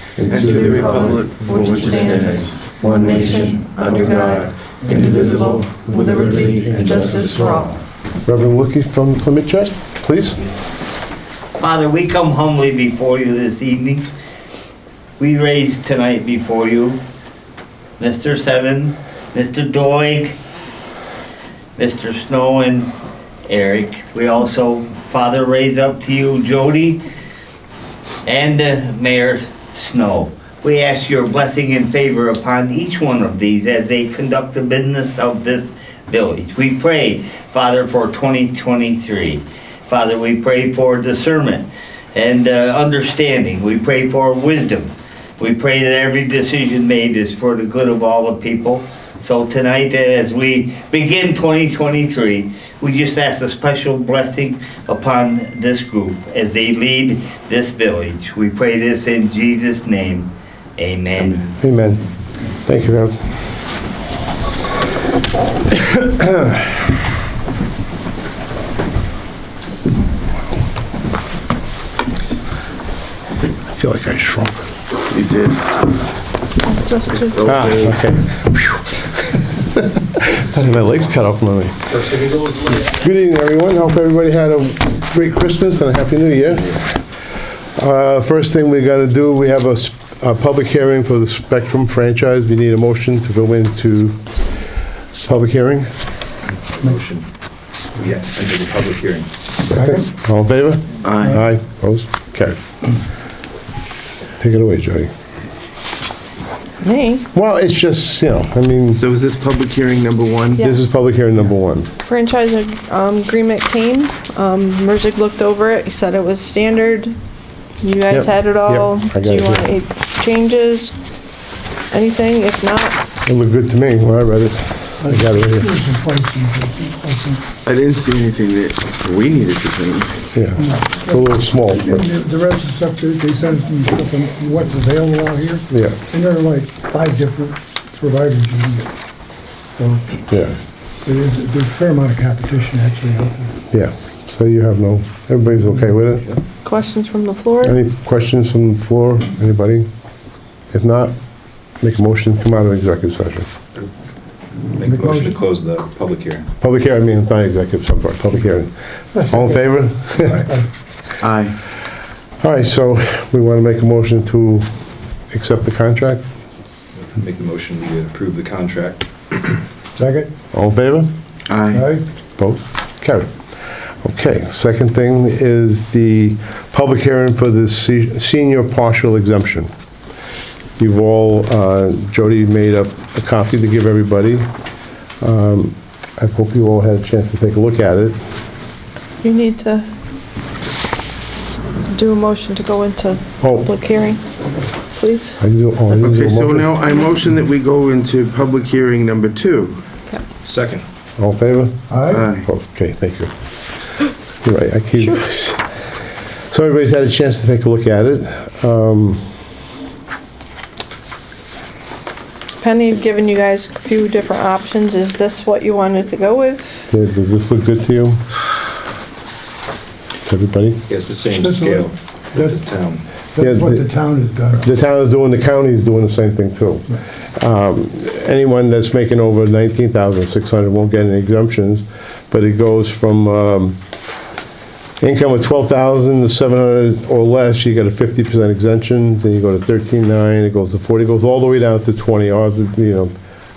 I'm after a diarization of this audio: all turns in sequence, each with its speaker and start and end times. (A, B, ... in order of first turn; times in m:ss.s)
0:00.2-0:01.1 A
0:00.2-0:07.4 B
0:00.3-0:07.8 C
0:05.9-0:07.6 A
0:08.2-0:10.4 A
0:11.6-0:14.1 D
0:15.2-0:17.0 D
0:18.0-0:20.3 D
0:21.8-0:22.9 D
0:23.5-0:27.0 D
0:28.2-1:01.5 D
1:01.6-1:02.0 A
1:02.6-1:03.2 A
1:06.0-1:06.6 A
1:13.7-1:14.7 A
1:15.1-1:15.7 B
1:16.6-1:17.5 C
1:17.1-1:18.0 B
1:17.4-1:22.2 A
1:22.0-1:22.9 E
1:22.9-1:27.0 A
1:27.7-1:34.3 A
1:35.2-1:35.9 A
1:36.7-1:37.2 E
1:38.0-1:39.3 E
1:39.7-1:40.1 F
1:39.7-1:42.6 A
1:41.0-1:41.4 B
1:44.4-1:45.1 A
1:46.8-1:47.3 C
1:47.3-1:49.0 A
1:48.9-1:50.6 B
1:50.6-1:50.9 C
1:50.6-1:51.9 A
1:52.0-1:57.2 C
1:57.8-2:00.9 C
1:58.1-1:59.7 A
2:01.9-2:03.0 C
2:03.2-2:05.7 A
2:05.0-2:07.4 F
2:07.6-2:10.1 B
2:10.3-2:12.0 A
2:10.6-2:18.9 F
2:15.7-2:16.0 A
2:19.8-2:20.0 F
2:20.3-2:20.5 A
2:21.0-2:23.5 F
2:23.7-2:26.3 A
2:26.6-2:27.8 C
2:27.6-2:29.9 A
2:30.7-2:31.1 A
2:31.7-2:33.5 A
2:34.8-2:36.5 E
2:34.8-2:35.4 F
2:36.6-2:40.5 A
2:39.1-2:39.6 F
2:41.2-2:41.5 B
2:42.4-2:44.6 A
2:45.3-2:46.2 A
2:47.1-2:49.6 E
2:50.0-2:50.3 F
2:50.5-2:51.1 A
2:51.5-2:51.9 B
2:51.7-2:52.0 F
2:52.4-2:53.3 A
2:54.0-2:59.7 A
3:00.8-3:04.5 A
3:05.2-3:08.2 A
3:09.2-3:09.9 C
3:11.9-3:14.2 C
3:13.4-3:13.7 A
3:14.9-3:15.4 C
3:15.4-3:16.7 A
3:16.0-3:19.8 B
3:20.4-3:20.8 E
3:21.2-3:23.3 A
3:21.9-3:22.3 F
3:22.1-3:22.5 B
3:24.4-3:25.6 A
3:26.5-3:29.2 A
3:32.6-3:36.8 C
3:36.9-3:38.2 A
3:40.2-3:40.8 A
3:40.9-3:43.0 E
3:41.4-3:42.6 F
3:43.3-3:44.7 F
3:43.4-3:43.9 A
3:44.6-3:53.8 A
3:55.0-4:03.1 A